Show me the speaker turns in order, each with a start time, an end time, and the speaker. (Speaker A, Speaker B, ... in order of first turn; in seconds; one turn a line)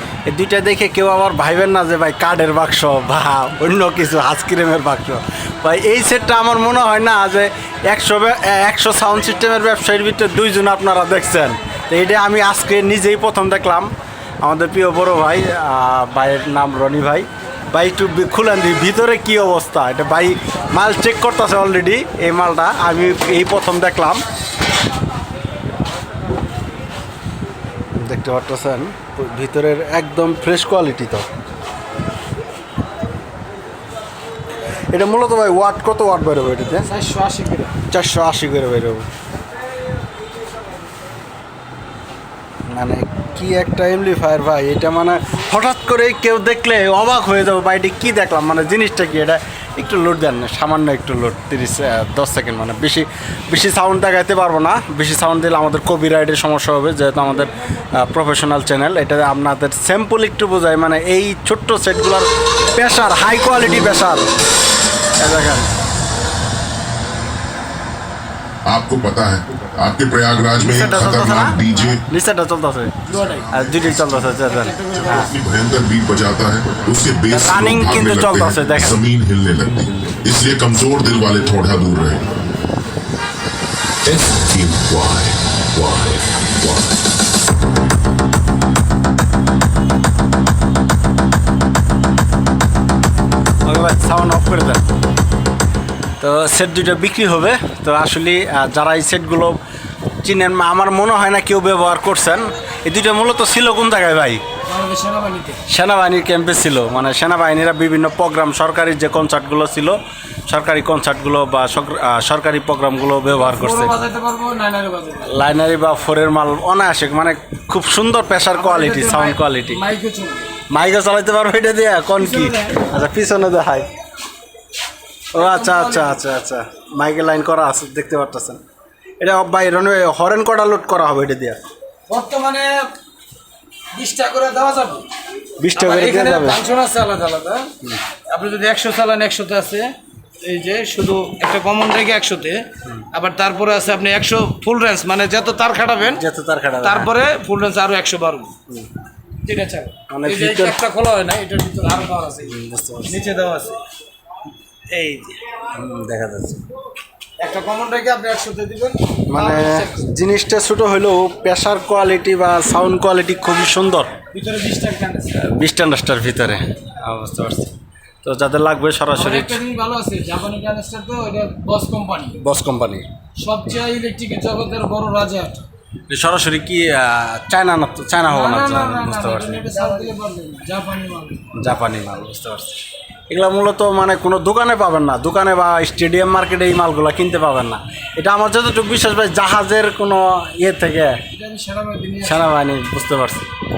Speaker A: 0.2-13.9
Speaker A: 14.4-24.2
Speaker A: 28.0-31.3
Speaker A: 34.9-36.9
Speaker B: 36.9-37.7
Speaker A: 37.9-39.1
Speaker A: 42.7-64.3
Speaker A: 65.2-65.7
Speaker C: 68.7-72.0
Speaker A: 70.6-75.3
Speaker B: 73.1-73.5
Speaker B: 74.4-75.3
Speaker C: 74.9-82.4
Speaker A: 77.3-79.0
Speaker C: 84.1-87.0
Speaker A: 93.7-94.8
Speaker A: 96.2-99.6
Speaker A: 100.2-104.4
Speaker B: 104.7-105.6
Speaker A: 105.7-114.0
Speaker B: 113.3-115.3
Speaker A: 115.2-119.8
Speaker B: 118.5-120.5
Speaker A: 120.7-123.9
Speaker B: 122.2-122.8
Speaker A: 125.3-128.6
Speaker B: 125.3-126.2
Speaker A: 129.2-131.6
Speaker B: 132.1-132.9
Speaker B: 133.9-135.1
Speaker A: 135.6-136.6
Speaker B: 135.7-137.7
Speaker B: 138.3-146.2
Speaker A: 146.0-147.1
Speaker B: 146.8-148.5
Speaker B: 149.4-153.8
Speaker A: 150.1-150.8
Speaker A: 152.4-153.2
Speaker B: 154.9-155.5
Speaker A: 155.7-156.6
Speaker B: 157.4-160.0
Speaker A: 159.3-164.2
Speaker B: 164.3-165.4
Speaker A: 165.3-167.7
Speaker A: 168.2-169.6
Speaker B: 169.2-172.4
Speaker A: 172.4-173.1
Speaker B: 173.4-175.6
Speaker A: 176.1-180.1
Speaker B: 178.3-181.4
Speaker A: 181.5-182.8
Speaker A: 183.3-191.2
Speaker B: 191.3-192.5
Speaker A: 192.2-193.5